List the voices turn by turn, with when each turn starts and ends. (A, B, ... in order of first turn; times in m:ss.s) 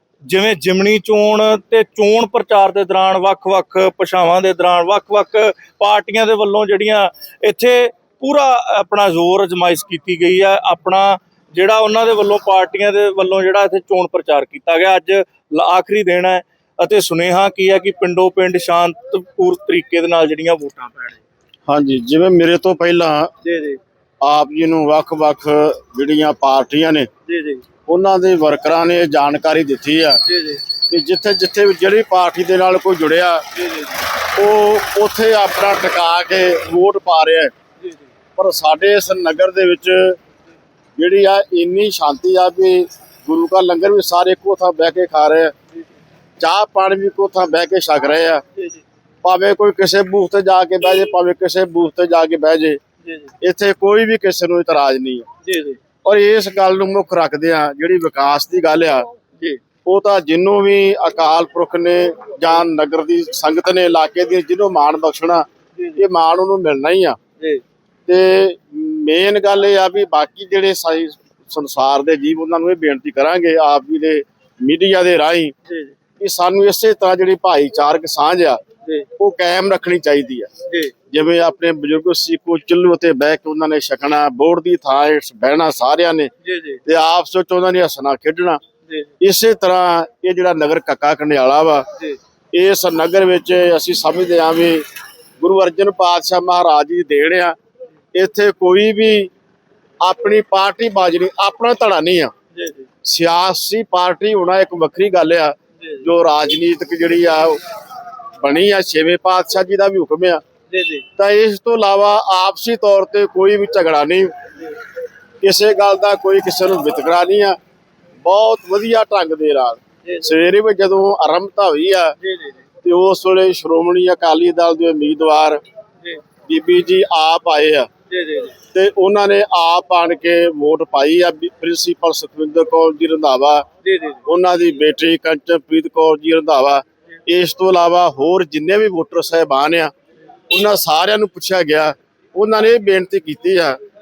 0:00.3-0:21.2 A
0:21.7-0:23.3 B
0:23.4-0:23.8 A
0:24.2-0:27.1 B
0:27.3-0:27.6 A
0:27.9-0:30.2 B
0:30.3-0:30.6 A
0:30.9-0:33.4 B
0:33.6-0:34.0 A
0:34.4-0:37.5 B
0:38.4-0:40.2 B
0:41.0-0:45.5 B
0:46.4-0:48.4 B
0:49.2-0:52.8 B
0:53.0-0:53.3 A
0:53.4-0:55.3 B
0:55.4-0:55.8 A
0:56.0-0:59.1 B
0:59.8-1:05.5 B
1:05.8-1:06.0 A
1:06.0-1:07.2 B
1:08.1-1:15.5 B
1:15.7-1:15.9 A
1:16.2-1:18.6 B
1:19.2-1:20.5 B
1:20.7-1:20.9 A
1:21.1-1:26.3 B
1:26.4-1:26.8 A
1:26.9-1:28.6 B
1:28.9-1:29.1 A
1:29.2-1:31.9 B
1:32.5-1:34.8 B
1:35.4-1:37.6 B
1:38.1-1:39.3 B
1:40.0-1:42.3 B
1:42.6-1:42.9 A
1:43.0-1:47.6 B
1:45.8-1:46.1 A
1:48.4-1:50.4 B
1:50.7-1:51.0 A
1:51.2-1:54.3 B
1:55.4-1:57.6 B
1:58.2-2:02.1 B
2:00.0-2:00.3 A
2:02.2-2:02.6 A
2:02.8-2:05.6 B
2:06.5-2:07.9 B
2:08.1-2:08.6 A
2:08.7-2:13.7 B
2:13.8-2:14.2 A
2:14.3-2:19.9 B
2:20.5-2:23.8 B